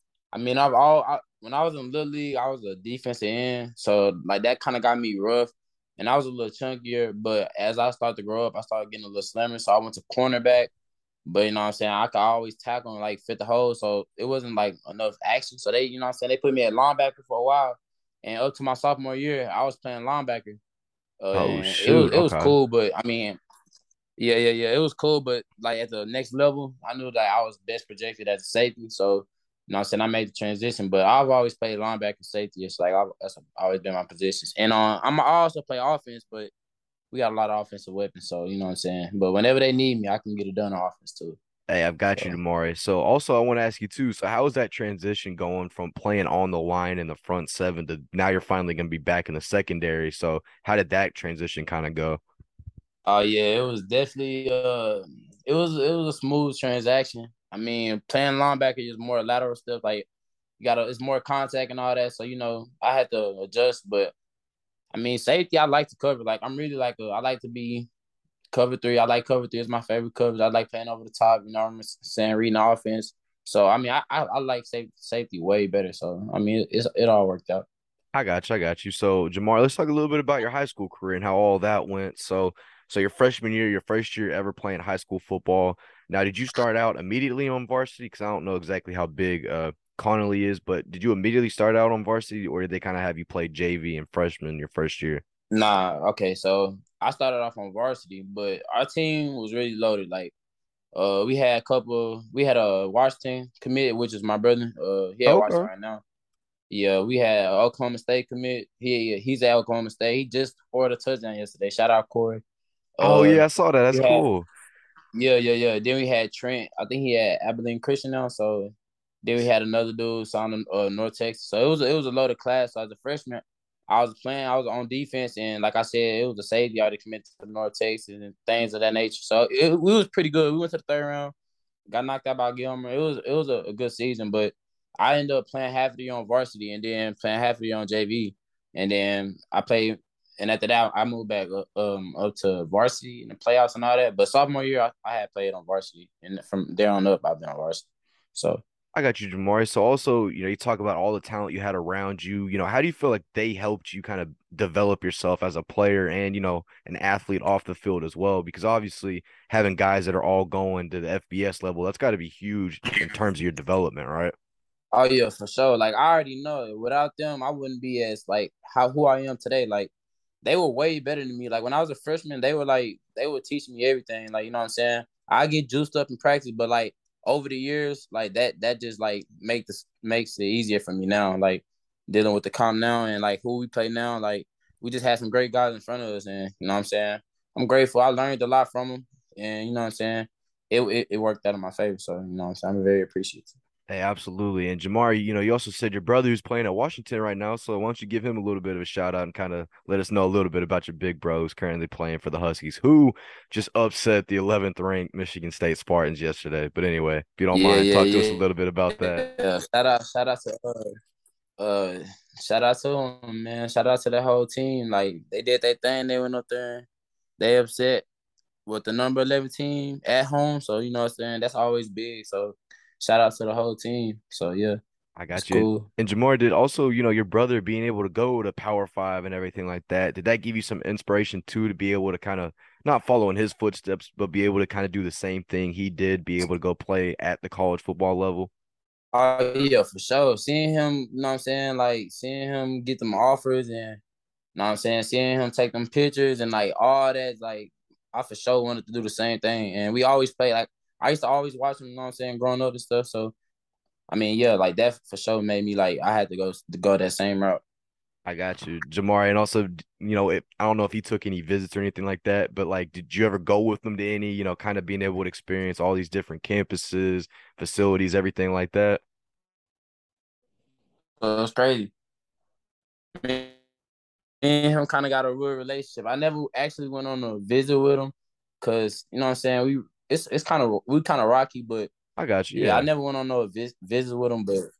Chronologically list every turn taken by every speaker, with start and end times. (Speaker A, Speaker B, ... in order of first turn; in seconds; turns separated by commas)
Speaker A: 0.3-10.7, Speaker A: 11.2-20.6, Speaker A: 21.2-23.4, Speaker B: 21.3-22.6, Speaker A: 24.2-36.5, Speaker A: 37.1-41.4, Speaker B: 41.7-52.2, Speaker A: 42.1-42.4, Speaker A: 53.1-60.1, Speaker A: 60.6-64.1, Speaker A: 64.9-67.9, Speaker A: 68.5-77.7, Speaker B: 78.1-95.2, Speaker A: 95.5-100.3, Speaker A: 100.9-106.0, Speaker B: 105.3-105.7, Speaker A: 106.7-112.4, Speaker A: 113.0-114.2, Speaker B: 113.0-114.5, Speaker A: 115.2-131.3, Speaker A: 131.9-148.6, Speaker B: 148.9-164.3, Speaker A: 164.9-169.9, Speaker A: 170.4-193.5, Speaker B: 193.9-209.2, Speaker A: 207.5-208.4, Speaker A: 209.0-210.8, Speaker A: 211.6-216.9, Speaker A: 217.4-218.1, Speaker A: 218.7-224.8, Speaker B: 225.2-238.5, Speaker A: 225.3-225.9, Speaker A: 239.1-244.0, Speaker A: 244.6-253.3, Speaker A: 254.1-257.6, Speaker B: 258.3-269.0, Speaker A: 271.2-271.9, Speaker A: 273.2-273.5, Speaker A: 274.4-281.9, Speaker B: 282.2-282.9, Speaker A: 282.5-284.6